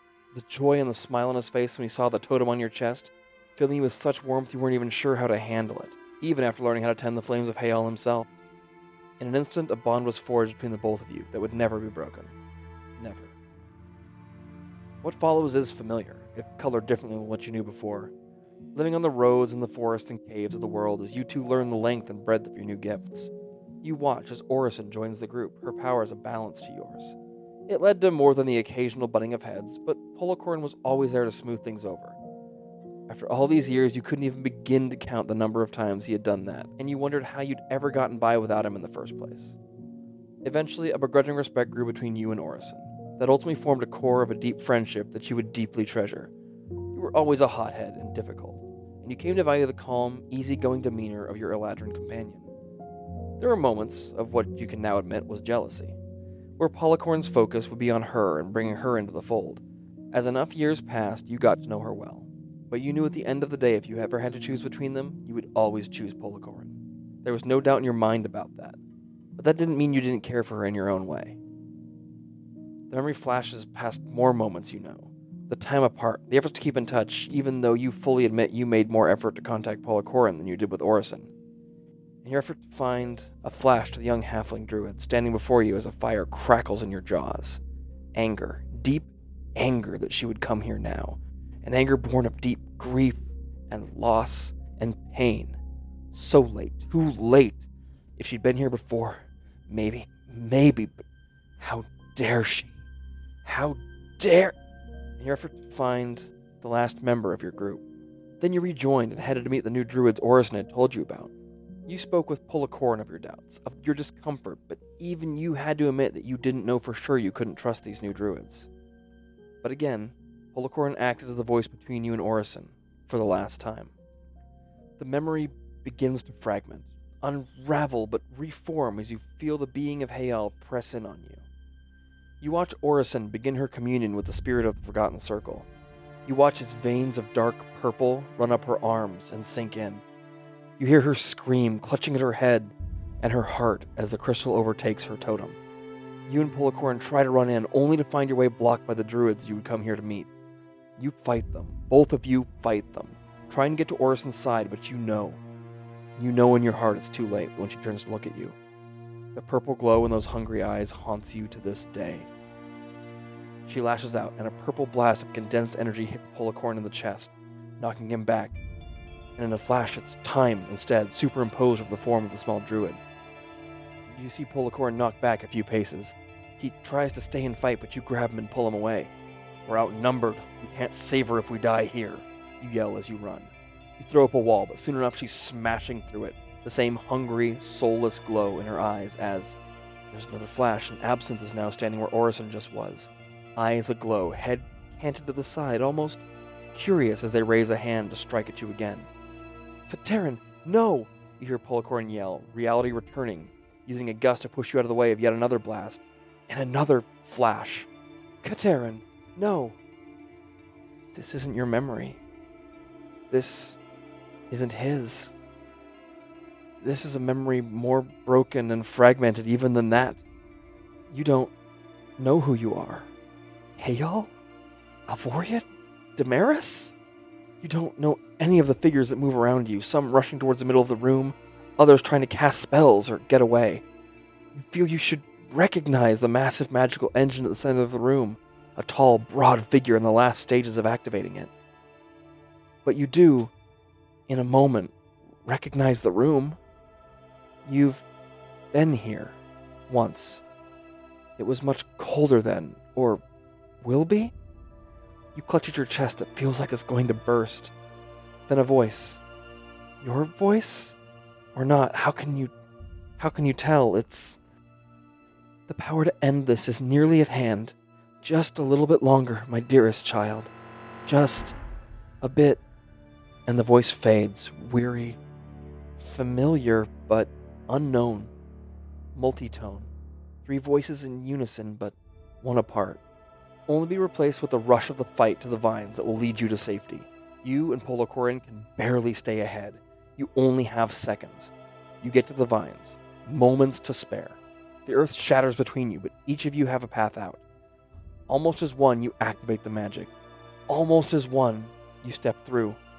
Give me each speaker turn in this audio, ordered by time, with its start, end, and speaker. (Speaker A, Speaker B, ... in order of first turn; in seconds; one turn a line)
Speaker A: 0.3-8.3
Speaker A: 9.2-12.3
Speaker A: 13.0-13.3
Speaker A: 15.0-18.1
Speaker A: 18.8-23.3
Speaker A: 23.8-27.2
Speaker A: 27.7-32.2
Speaker A: 33.1-39.6
Speaker A: 40.4-46.3
Speaker A: 46.9-52.5
Speaker A: 53.4-56.0
Speaker A: 56.6-68.8
Speaker A: 69.4-71.4
Speaker A: 72.9-81.3
Speaker A: 82.2-87.6
Speaker A: 88.2-95.6
Speaker A: 96.1-101.0
Speaker A: 101.6-102.8
Speaker A: 103.4-104.5
Speaker A: 105.2-107.8
Speaker A: 108.4-111.3
Speaker A: 111.9-118.7
Speaker A: 119.6-123.9
Speaker A: 125.0-131.4
Speaker A: 132.4-135.7
Speaker A: 136.3-140.0
Speaker A: 140.8-145.6
Speaker A: 146.3-150.3
Speaker A: 151.0-155.4
Speaker A: 156.2-158.6
Speaker A: 159.3-162.3
Speaker A: 163.7-168.6
Speaker A: 169.4-173.0
Speaker A: 174.1-179.1
Speaker A: 179.7-189.6
Speaker A: 190.1-199.1
Speaker A: 199.9-207.9
Speaker A: 208.4-209.8
Speaker A: 211.1-212.2
Speaker A: 213.3-213.8
Speaker A: 214.5-215.3
Speaker A: 216.8-220.2
Speaker A: 221.1-221.5
Speaker A: 222.2-223.1
Speaker A: 223.8-224.3
Speaker A: 225.1-226.9
Speaker A: 227.6-233.8
Speaker A: 234.5-241.5
Speaker A: 242.8-243.5
Speaker A: 244.3-244.9
Speaker A: 245.4-246.6
Speaker A: 247.7-248.1
Speaker A: 248.7-249.4
Speaker A: 249.9-250.4
Speaker A: 251.4-253.2
Speaker A: 253.8-254.3
Speaker A: 255.3-257.7
Speaker A: 258.5-259.2
Speaker A: 260.0-261.0
Speaker A: 261.6-262.5
Speaker A: 263.2-264.4
Speaker A: 265.7-270.5
Speaker A: 271.1-271.6
Speaker A: 272.2-272.6
Speaker A: 273.5-275.2
Speaker A: 276.0-278.3
Speaker A: 279.1-279.9
Speaker A: 280.4-283.0
Speaker A: 283.7-291.5
Speaker A: 292.0-297.4
Speaker A: 298.3-300.1
Speaker A: 300.7-302.8